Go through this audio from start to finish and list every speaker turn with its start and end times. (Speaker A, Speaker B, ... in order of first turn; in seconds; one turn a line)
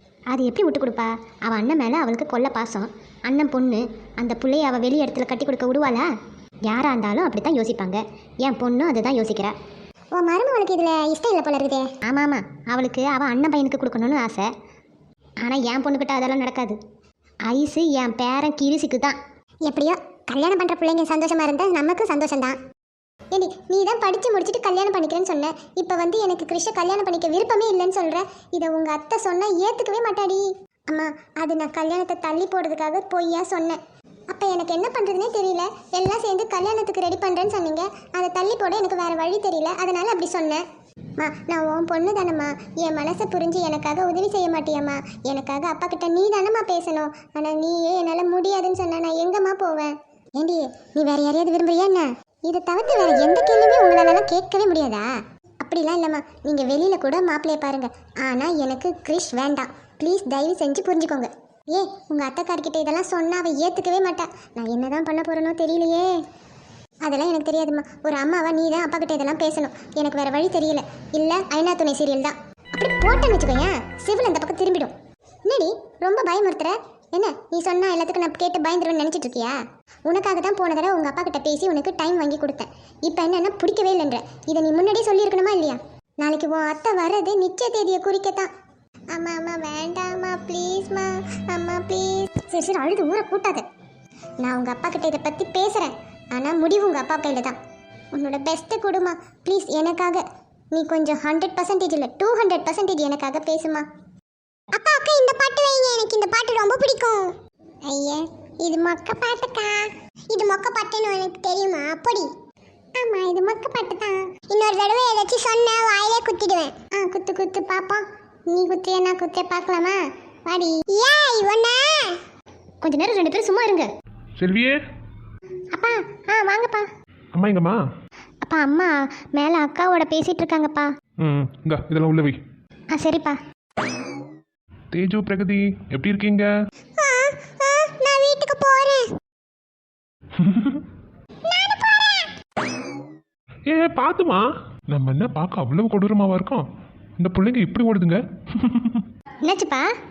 Speaker A: 0.3-6.1
Speaker A: 6.7-9.5
Speaker B: 10.1-11.9
Speaker A: 12.0-14.5
Speaker A: 15.4-16.8
Speaker A: 17.5-19.2
Speaker B: 19.6-22.6
Speaker B: 23.3-40.6
Speaker B: 41.2-66.2
Speaker B: 67.0-74.9
Speaker B: 75.5-88.5
Speaker B: 89.1-93.7
Speaker B: 94.4-97.6
Speaker B: 98.1-103.9
Speaker B: 104.7-112.3
Speaker B: 113.0-122.2
Speaker A: 122.8-123.9
Speaker C: 124.4-124.8
Speaker A: 125.7-126.9
Speaker C: 127.3-127.8
Speaker A: 128.4-130.9
Speaker C: 131.2-132.4
Speaker A: 132.9-133.4
Speaker C: 134.9-136.5
Speaker B: 137.0-139.1
Speaker C: 140.4-140.8
Speaker B: 141.5-142.3
Speaker C: 143.7-146.7
Speaker C: 147.2-149.1
Speaker A: 149.4-149.9